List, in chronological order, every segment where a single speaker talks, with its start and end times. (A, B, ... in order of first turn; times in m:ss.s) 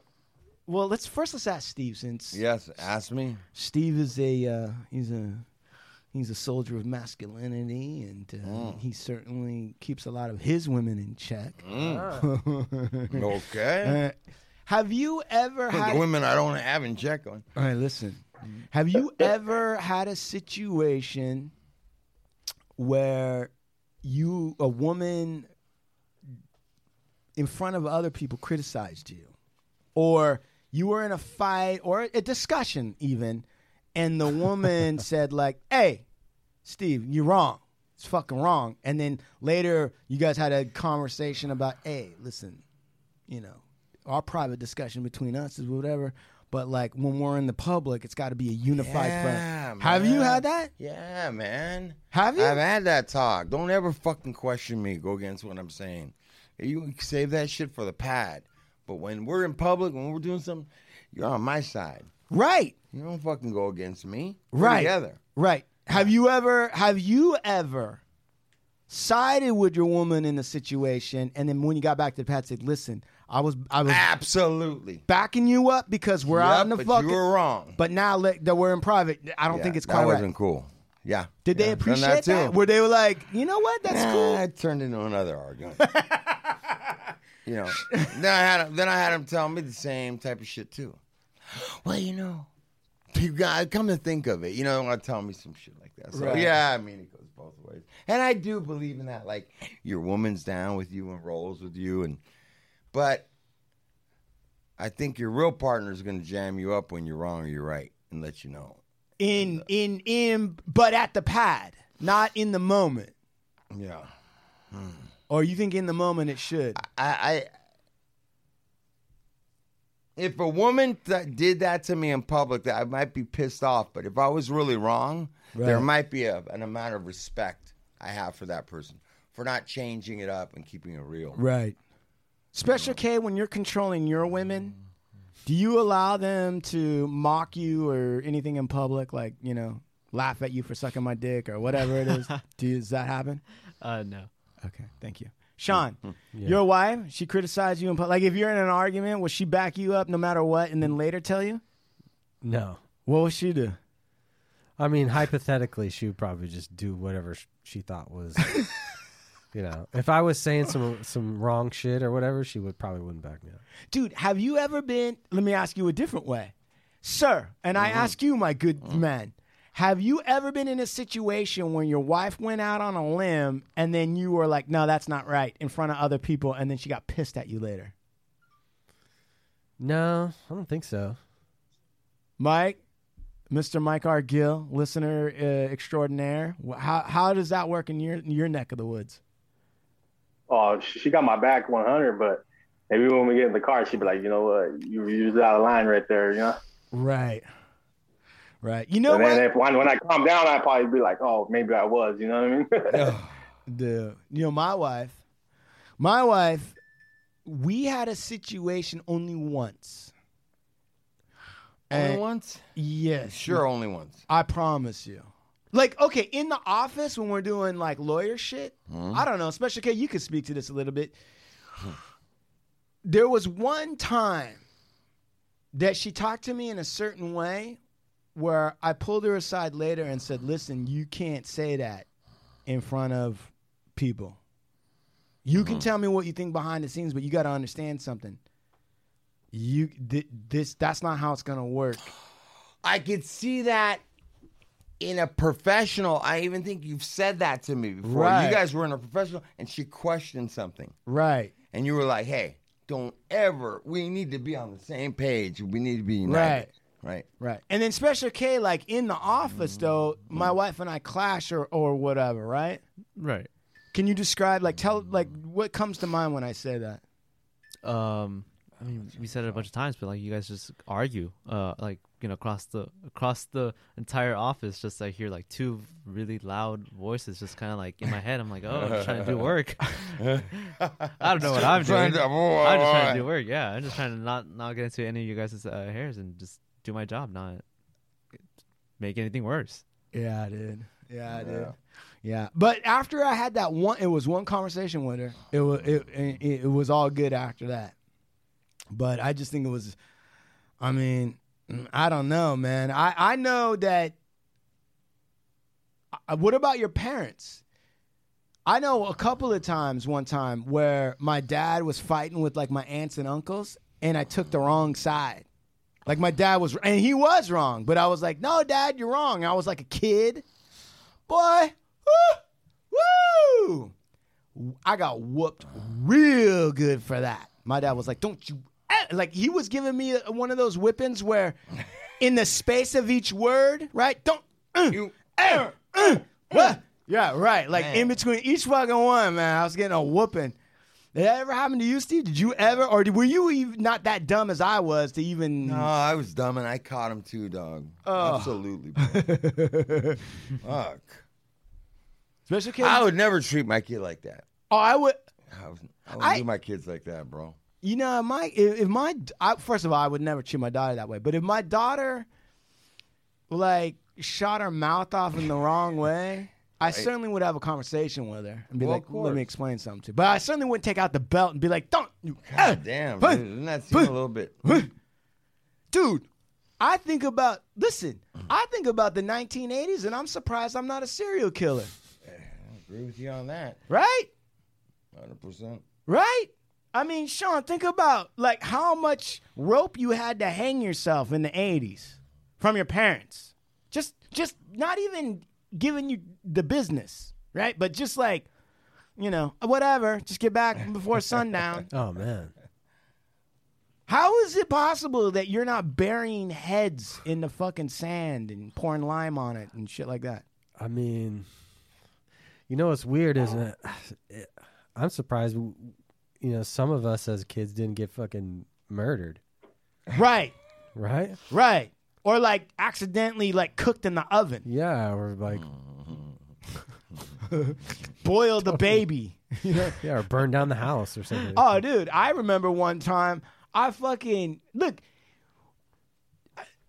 0:00.7-0:02.4 A
0:02.3-0:03.4 B
0:03.6-0:05.4 A
0:06.1-0:13.3 A
0:08.4-0:08.8 B
0:11.6-0:12.1 B
0:11.8-0:12.3 C
0:13.1-0:14.0 B
0:13.8-0:14.2 A
0:14.7-0:16.0 A
0:15.7-0:17.5 B
0:17.6-0:21.5 A
0:22.8-0:23.5 A
0:24.0-0:25.5 A
0:27.4-0:29.3 A
0:30.0-0:36.0 A
0:36.6-0:42.6 A
0:43.3-0:50.7 A
0:48.8-1:02.1 B
0:52.1-0:52.6 A
1:02.3-1:02.8 A
1:02.9-1:05.2 B
1:04.5-1:08.0 A
1:08.9-1:14.1 A
1:13.8-1:15.0 B
1:15.1-1:17.2 A
1:16.3-1:17.8 B
1:17.8-1:20.3 A
1:19.5-1:22.6 B
1:21.4-1:24.4 A
1:23.9-1:25.8 B
1:25.8-1:26.7 A
1:27.4-1:32.5 B
1:27.8-1:28.1 A
1:33.1-1:42.2 B
1:36.1-1:36.5 A
1:42.9-1:43.3 B
1:44.8-1:48.8 B
1:49.2-1:53.1 A
1:49.4-1:49.6 B
1:53.7-1:54.1 B
1:54.7-1:55.1 B
1:55.3-1:56.8 A
1:56.8-1:57.5 B
2:00.2-2:11.4 B
2:05.5-2:05.9 A
2:11.4-2:11.8 A
2:12.5-2:14.8 A
2:12.7-2:13.0 B
2:15.5-2:23.4 A
2:23.8-2:24.3 D
2:24.6-2:31.6 A
2:26.4-2:26.6 C
2:32.4-2:32.8 C
2:33.1-2:33.8 A
2:34.8-2:38.8 C
2:39.5-2:43.6 C
2:43.9-2:57.9 A
2:47.8-2:48.2 B
2:59.8-3:01.2 C
3:02.4-3:02.8 A
3:03.5-3:09.2 A
3:10.5-3:16.6 E
3:16.9-3:17.5 A
3:18.6-3:19.4 A
3:19.1-3:23.1 E
3:22.9-3:23.3 B
3:23.7-3:25.2 A
3:26.0-3:26.8 A
3:27.4-3:30.1 A
3:31.9-3:32.2 A
3:31.9-3:32.7 B
3:32.8-3:33.6 A
3:33.3-3:34.2 B
3:34.3-3:41.2 A
3:38.9-3:39.2 B
3:43.0-3:44.6 A
3:45.7-3:47.8 A
3:48.4-3:52.1 A
3:52.7-3:54.4 A
3:55.4-3:58.4 A
3:55.6-3:55.9 B
3:59.5-4:02.1 A
4:02.8-4:04.0 B
4:05.0-4:11.0 B
4:08.0-4:08.6 A
4:11.1-4:11.5 A
4:11.7-4:17.3 B
4:16.2-4:16.7 A
4:17.4-4:22.8 A
4:23.2-4:23.5 D
4:23.9-4:27.0 A
4:27.8-4:47.6 D
4:29.2-4:29.6 B
4:38.7-4:39.6 B
4:40.2-4:43.3 B
4:49.0-4:49.8 D
4:50.1-4:58.0 A
4:51.3-4:51.7 B
4:58.9-5:00.0 A
5:00.8-5:04.2 A
5:06.3-5:07.6 A
5:08.7-5:15.5 A
5:16.1-5:20.4 A
5:21.3-5:23.9 A
5:24.6-5:31.6 A
5:32.2-5:40.6 A
5:34.9-5:36.8 B
5:37.7-5:38.2 B
5:41.2-5:45.9 A
5:45.6-5:49.2 B
5:48.0-5:50.2 A
5:50.6-5:51.2 B
5:52.5-5:53.1 A
5:52.8-5:54.5 B
5:54.7-5:55.2 A
5:55.5-5:57.6 B
5:56.1-5:56.4 A
5:57.8-6:02.3 A
6:03.5-6:14.9 A
6:06.8-6:07.1 B
6:08.8-6:09.5 B
6:12.5-6:14.8 B
6:15.9-6:16.3 A
6:16.8-6:21.9 A
6:22.2-6:23.8 B
6:23.9-6:24.3 A
6:25.1-6:25.8 B
6:26.1-6:38.5 A
6:39.2-6:41.9 A
6:41.9-6:42.5 C
6:44.1-6:50.4 A
6:50.8-6:51.5 C
6:52.7-6:59.4 C
7:00.1-7:00.5 A
7:01.0-7:01.4 C
7:01.5-7:04.7 A
7:04.6-7:05.7 C
7:05.5-7:06.4 B
7:07.5-7:10.0 A
7:08.7-7:09.0 C
7:10.0-7:11.8 C
7:11.6-7:15.0 A